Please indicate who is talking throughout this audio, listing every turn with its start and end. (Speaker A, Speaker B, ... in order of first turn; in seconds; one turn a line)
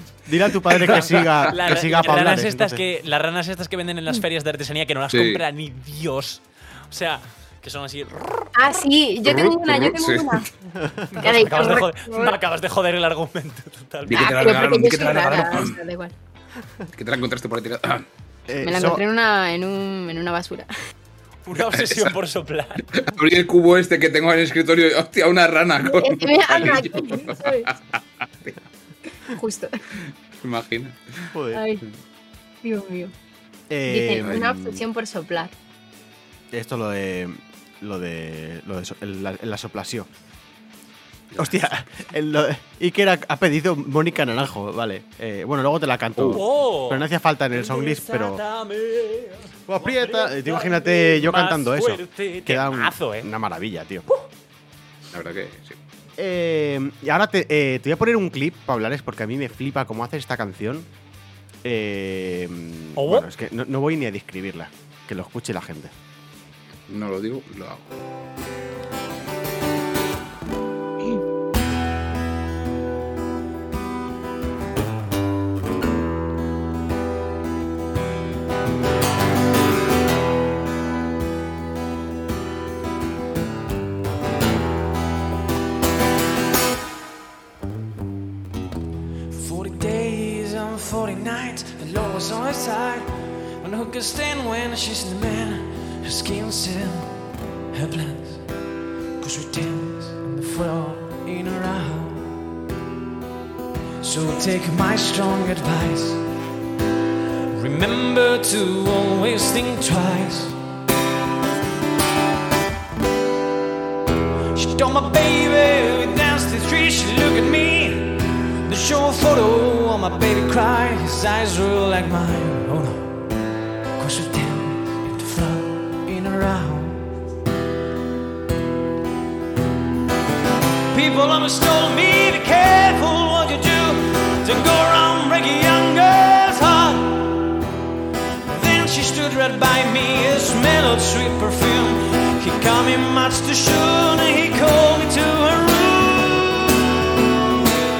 Speaker A: 0.2-2.8
Speaker B: 0.8-1.4
Speaker C: 0.9-8.3
Speaker B: 5.1-5.4
Speaker D: 8.5-10.5
Speaker B: 9.2-10.4
Speaker A: 10.8-11.1
Speaker C: 11.1-14.5
Speaker D: 11.2-12.4
Speaker B: 14.1-15.8
Speaker D: 14.1-16.1
Speaker B: 16.9-18.1
Speaker A: 18.5-19.0
Speaker D: 18.6-20.7
Speaker C: 21.4-22.9
Speaker B: 21.7-22.1
Speaker B: 22.9-28.6
Speaker D: 25.8-27.7
Speaker D: 29.3-29.7
Speaker B: 30.4-31.0
Speaker A: 31.3-31.8
Speaker D: 31.5-31.8
Speaker D: 32.6-33.1
Speaker A: 33.7-34.8
Speaker D: 33.9-35.5
Speaker B: 34.2-34.5
Speaker A: 36.5-40.1
Speaker A: 41.4-48.4
Speaker B: 46.2-46.4
Speaker C: 46.3-53.3
Speaker A: 49.7-54.1
Speaker B: 55.1-55.8
Speaker A: 56.2-60.9
Speaker A: 61.6-65.9
Speaker C: 63.0-63.3
Speaker B: 66.9-67.9
Speaker E: 89.3-97.2
Speaker E: 97.7-98.5
Speaker E: 99.2-102.4
Speaker E: 104.0-106.2
Speaker E: 107.5-110.6
Speaker E: 114.5-123.2
Speaker E: 124.0-127.1
Speaker E: 130.9-137.5
Speaker E: 138.5-146.8